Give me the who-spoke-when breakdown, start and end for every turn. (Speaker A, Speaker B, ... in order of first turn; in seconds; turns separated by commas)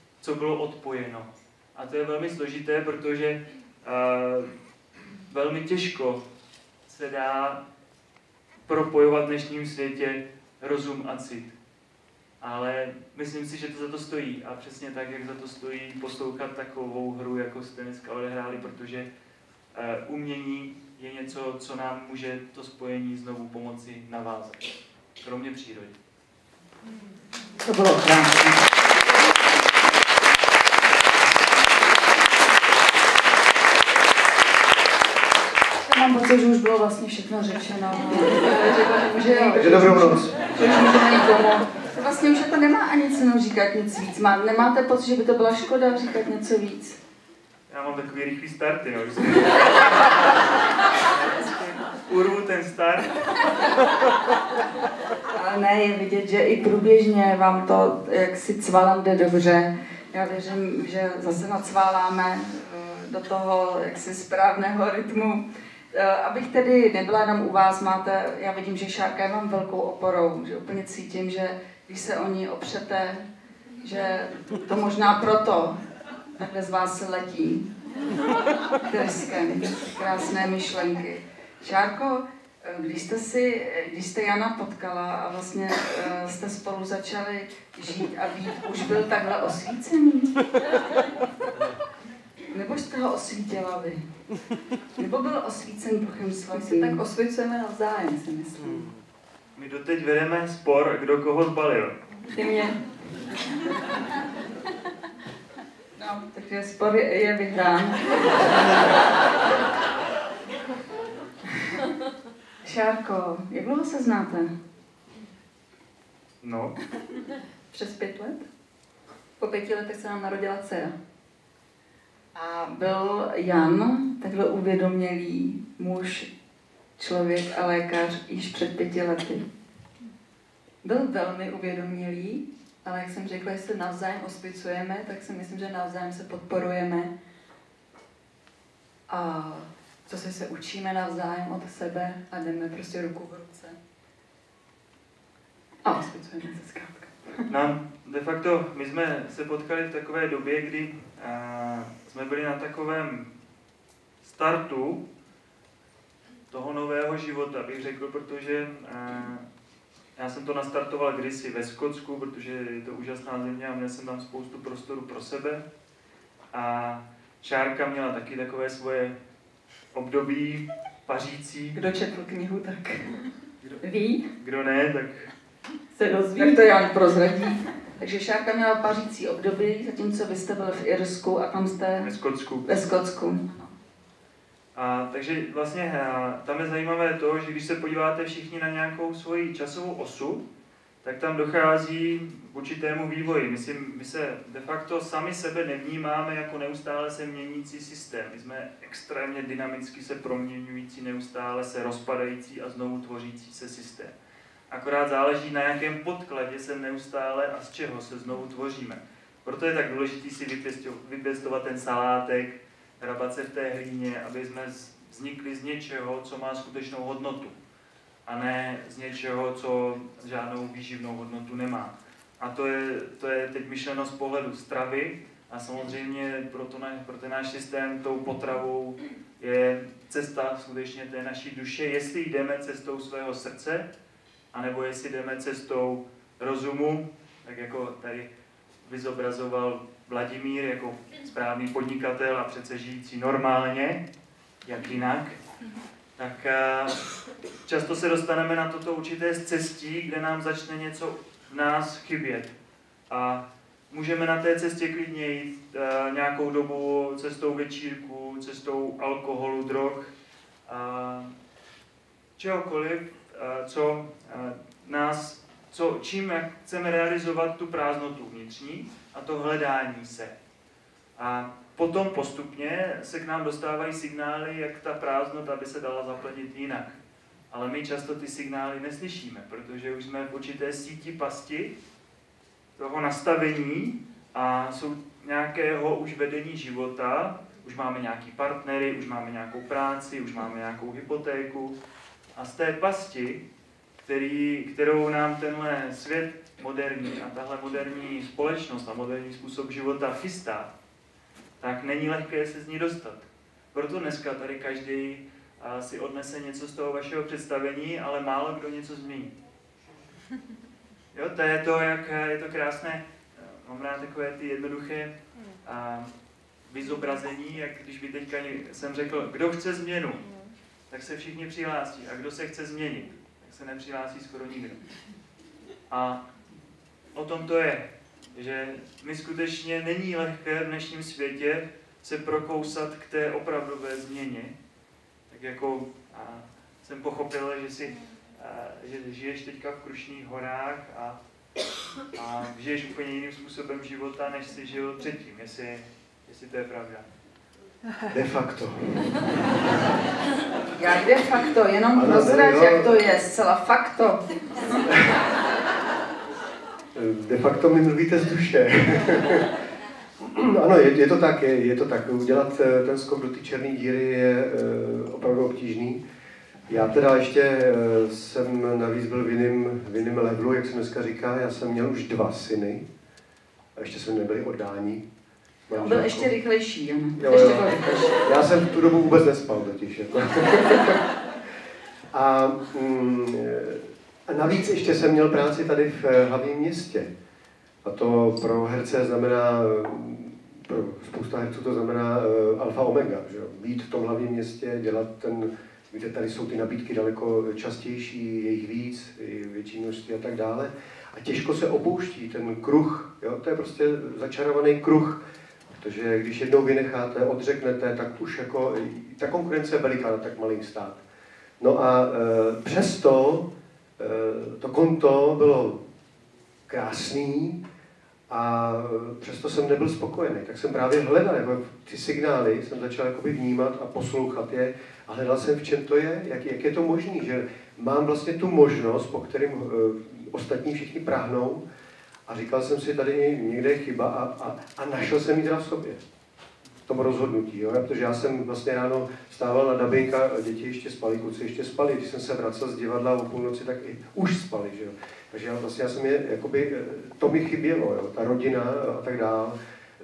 Speaker A: 0.2-4.5, Speaker A: 5.3-6.2, Speaker A: 6.9-7.6, Speaker A: 8.7-11.6, Speaker A: 12.4-19.1, Speaker A: 19.7-26.0, Speaker B: 27.6-28.6, Speaker B: 35.9-47.0, Speaker C: 38.2-40.2, Speaker D: 39.5-40.5, Speaker A: 47.7-50.4, Speaker A: 51.0-53.2, Speaker B: 55.3-73.3, Speaker B: 73.8-75.8, Speaker B: 76.4-77.7, Speaker B: 78.9-90.3, Speaker B: 92.5-94.0, Speaker B: 95.0-97.0, Speaker C: 96.5-98.9, Speaker A: 99.6-102.0, Speaker C: 102.3-102.8, Speaker B: 106.0-108.0, Speaker B: 112.6-114.5, Speaker A: 116.4-116.8, Speaker C: 117.7-118.5, Speaker C: 119.4-121.0, Speaker B: 122.3-126.3, Speaker B: 127.0-129.4, Speaker C: 130.8-137.1, Speaker C: 139.1-143.8, Speaker C: 145.8-147.4, Speaker A: 147.5-153.3, Speaker A: 154.2-155.0, Speaker A: 156.5-159.5, Speaker A: 160.2-165.7, Speaker A: 166.5-169.2, Speaker A: 169.9-171.8, Speaker C: 171.8-173.3, Speaker C: 173.8-174.3, Speaker A: 174.4-175.3, Speaker C: 175.9-176.7, Speaker B: 176.4-182.1, Speaker A: 182.0-182.8, Speaker B: 182.7-183.5, Speaker A: 184.8-190.4, Speaker A: 191.0-204.1, Speaker A: 204.7-217.6, Speaker A: 218.3-233.9, Speaker A: 234.5-238.3, Speaker A: 238.8-244.0, Speaker A: 244.7-245.4, Speaker A: 246.2-247.1, Speaker A: 247.7-252.5, Speaker A: 253.1-260.1, Speaker A: 260.7-261.3, Speaker A: 262.4-270.3, Speaker A: 271.2-277.0, Speaker A: 277.5-281.7, Speaker A: 282.8-291.8, Speaker A: 292.4-293.4, Speaker A: 294.0-300.7, Speaker A: 301.6-309.3, Speaker A: 311.1-315.1, Speaker A: 315.6-316.1, Speaker A: 316.7-320.2, Speaker A: 320.9-324.8, Speaker A: 325.9-326.2, Speaker A: 327.1-334.5, Speaker A: 335.3-341.2, Speaker A: 342.1-347.1, Speaker D: 348.1-349.2, Speaker B: 350.8-354.2, Speaker D: 351.9-353.0, Speaker D: 356.9-359.5, Speaker D: 360.2-366.0, Speaker D: 366.7-372.9, Speaker D: 373.8-375.0, Speaker D: 375.7-376.3, Speaker B: 375.7-378.2, Speaker D: 377.2-381.0, Speaker D: 382.1-387.1, Speaker D: 387.8-411.0, Speaker D: 411.6-415.8, Speaker D: 416.7-417.6, Speaker D: 418.3-431.6, Speaker D: 432.3-436.0, Speaker D: 436.9-449.6